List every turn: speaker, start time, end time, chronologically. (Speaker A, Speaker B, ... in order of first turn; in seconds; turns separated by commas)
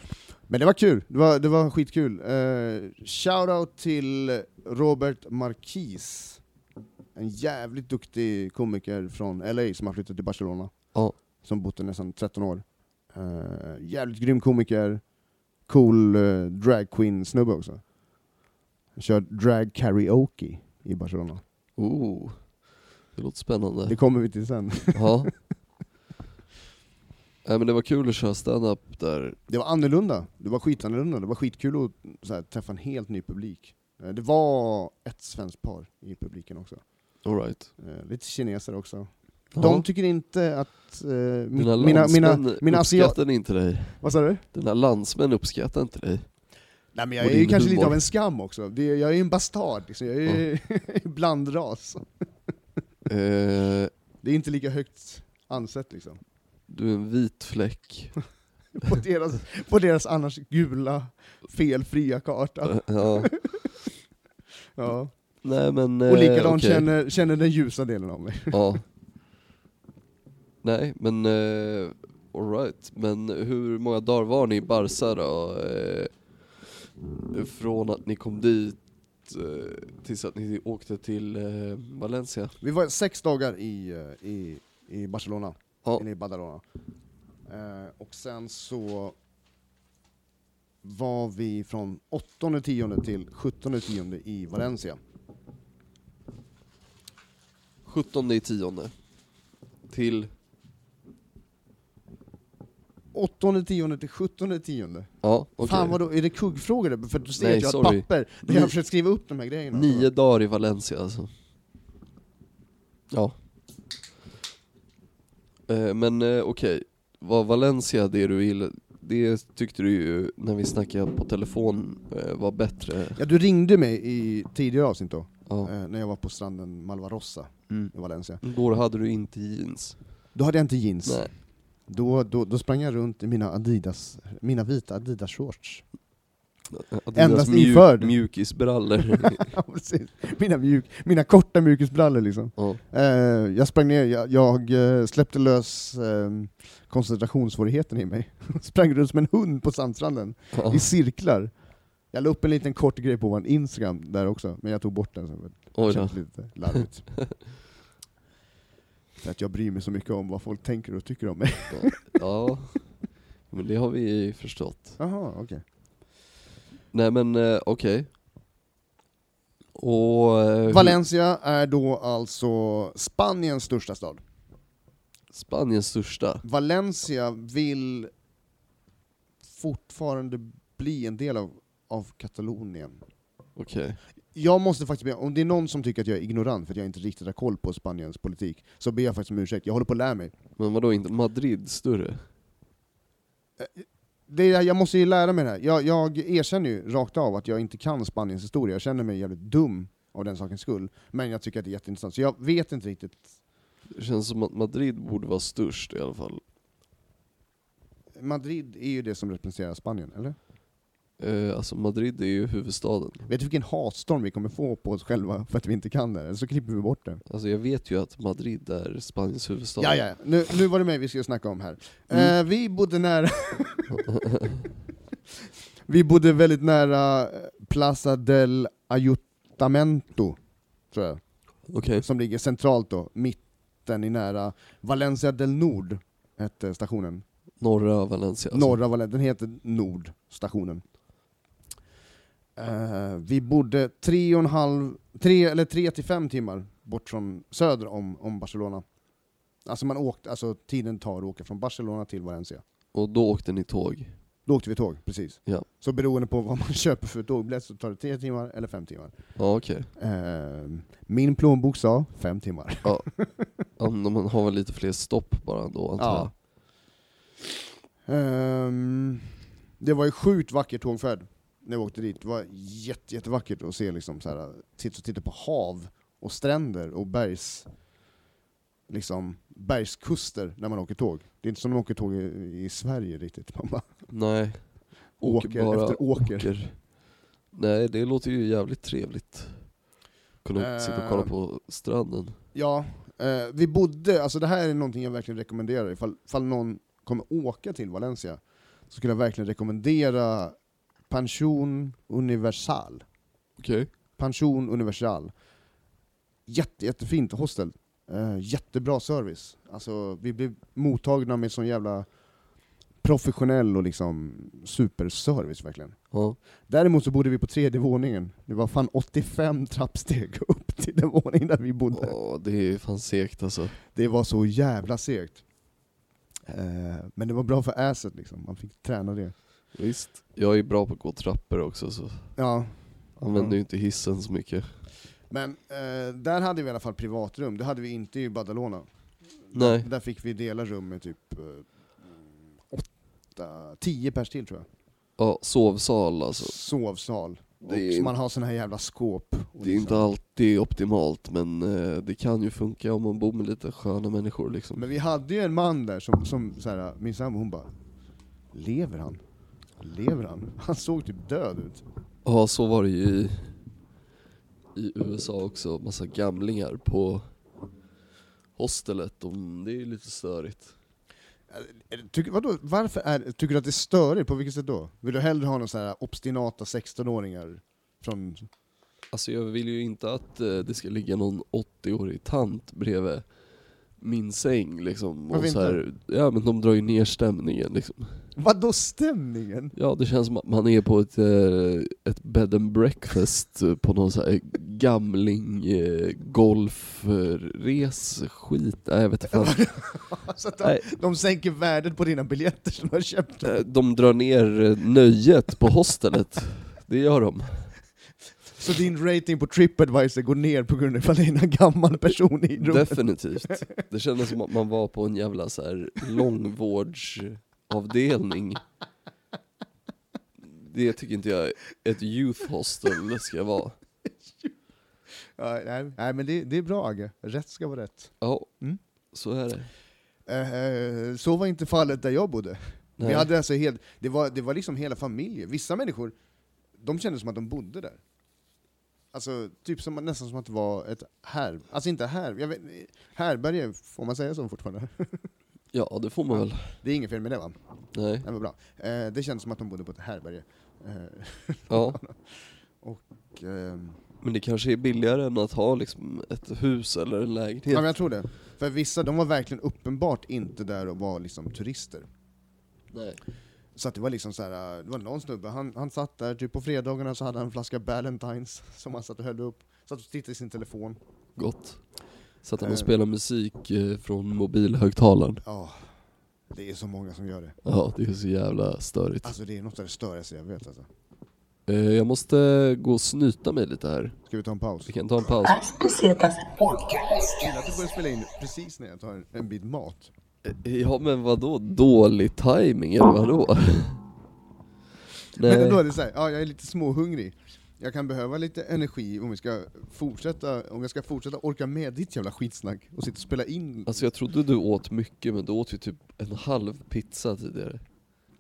Speaker A: 0.5-6.4, Speaker A: 7.1-15.1, Speaker A: 15.6-17.8, Speaker A: 19.0-21.4, Speaker B: 21.8-24.0, Speaker A: 23.9-25.4, Speaker B: 24.9-25.3, Speaker B: 27.4-29.4, Speaker A: 29.5-37.1, Speaker B: 37.2-37.7, Speaker A: 37.8-43.4, Speaker B: 39.5-39.9, Speaker B: 41.5-46.3, Speaker A: 43.9-44.4, Speaker A: 46.9-52.1, Speaker B: 47.2-48.0, Speaker B: 53.1-53.9, Speaker A: 54.2-56.2, Speaker B: 56.7-58.2, Speaker A: 58.8-63.7, Speaker B: 62.6-63.4, Speaker A: 64.8-65.4, Speaker B: 65.4-66.9, Speaker A: 66.1-68.7, Speaker B: 68.5-68.8, Speaker B: 70.6-76.3, Speaker B: 77.3-82.6, Speaker A: 82.6-86.6, Speaker A: 87.5-89.2, Speaker A: 90.8-95.0, Speaker B: 97.9-98.9, Speaker B: 99.9-100.3, Speaker A: 103.1-110.1, Speaker B: 105.2-106.0, Speaker B: 107.4-108.8, Speaker B: 109.7-111.3, Speaker B: 113.1-113.4, Speaker B: 115.7-123.2, Speaker A: 123.2-128.4, Speaker B: 127.7-130.0, Speaker A: 130.3-135.9, Speaker B: 131.1-131.3, Speaker B: 136.7-139.5, Speaker A: 137.1-138.2, Speaker A: 139.2-151.5, Speaker B: 150.5-150.8, Speaker A: 152.1-157.3, Speaker B: 155.7-157.3, Speaker A: 159.2-162.0, Speaker B: 161.7-165.0, Speaker A: 165.0-165.6, Speaker B: 166.9-168.1, Speaker B: 169.8-171.0, Speaker A: 170.7-174.2, Speaker B: 175.3-176.4, Speaker A: 176.4-178.1, Speaker A: 179.5-183.0, Speaker B: 183.6-184.0, Speaker A: 184.3-190.3, Speaker B: 190.6-192.2, Speaker A: 193.6-203.3, Speaker B: 203.9-206.4, Speaker A: 208.1-210.4, Speaker B: 211.2-213.3, Speaker A: 213.3-217.2, Speaker B: 217.3-220.0, Speaker A: 219.8-224.1, Speaker B: 223.9-224.5, Speaker A: 225.9-230.4, Speaker A: 230.9-237.2, Speaker B: 231.7-232.1, Speaker B: 237.6-238.8, Speaker A: 238.5-240.8, Speaker A: 242.6-248.8, Speaker A: 249.6-252.6, Speaker B: 252.9-254.2, Speaker A: 254.5-259.1, Speaker B: 259.4-259.9, Speaker A: 260.0-263.5, Speaker B: 262.8-263.1, Speaker B: 263.8-266.3, Speaker A: 266.0-266.3, Speaker A: 268.1-277.7, Speaker A: 278.9-283.9, Speaker B: 284.1-286.9, Speaker A: 285.2-286.6, Speaker B: 287.5-289.8, Speaker B: 290.4-292.4, Speaker A: 290.6-291.3, Speaker A: 292.5-300.6, Speaker A: 301.1-303.0, Speaker B: 303.6-303.9, Speaker A: 304.2-305.3, Speaker A: 306.5-312.1, Speaker A: 313.0-316.0, Speaker B: 316.1-316.4, Speaker A: 316.7-322.2, Speaker B: 321.9-323.8, Speaker A: 323.9-325.4, Speaker A: 326.5-329.4, Speaker B: 329.7-332.4, Speaker A: 332.4-333.6, Speaker B: 333.2-334.7, Speaker A: 335.3-338.9, Speaker A: 339.4-344.7, Speaker B: 339.5-339.9, Speaker B: 345.2-346.6, Speaker A: 346.4-350.1, Speaker B: 347.6-348.1, Speaker B: 349.6-354.9, Speaker A: 354.8-357.7, Speaker A: 358.5-359.2, Speaker A: 359.8-361.8, Speaker B: 362.2-363.6, Speaker B: 364.8-367.3, Speaker B: 368.6-370.8, Speaker A: 371.5-378.5, Speaker B: 379.1-383.4, Speaker B: 383.9-388.2, Speaker A: 385.3-385.8, Speaker A: 388.4-389.7, Speaker B: 389.8-399.7, Speaker A: 399.3-403.6, Speaker B: 403.4-407.7, Speaker A: 408.6-413.7, Speaker B: 412.6-418.6, Speaker B: 420.4-423.8, Speaker A: 425.4-428.8, Speaker B: 428.2-428.5, Speaker B: 429.1-429.7, Speaker A: 430.3-436.1, Speaker B: 433.0-433.3, Speaker A: 436.8-438.0, Speaker A: 439.1-445.3, Speaker B: 445.7-446.8, Speaker A: 446.3-447.6, Speaker B: 447.9-448.3, Speaker A: 448.2-454.0, Speaker B: 451.7-452.0, Speaker B: 454.2-457.9, Speaker A: 457.7-462.1, Speaker B: 462.9-463.2, Speaker A: 463.8-471.0, Speaker B: 471.4-471.8, Speaker B: 472.4-475.4, Speaker A: 472.6-472.9, Speaker A: 475.4-476.0, Speaker A: 476.5-477.6, Speaker B: 477.6-479.3, Speaker A: 479.2-480.9, Speaker B: 481.7-484.1, Speaker A: 484.3-484.9, Speaker B: 484.9-485.6, Speaker C: 485.4-487.7, Speaker A: 487.4-490.1, Speaker B: 490.4-494.0, Speaker B: 495.3-495.8, Speaker A: 495.4-504.1, Speaker B: 503.9-507.8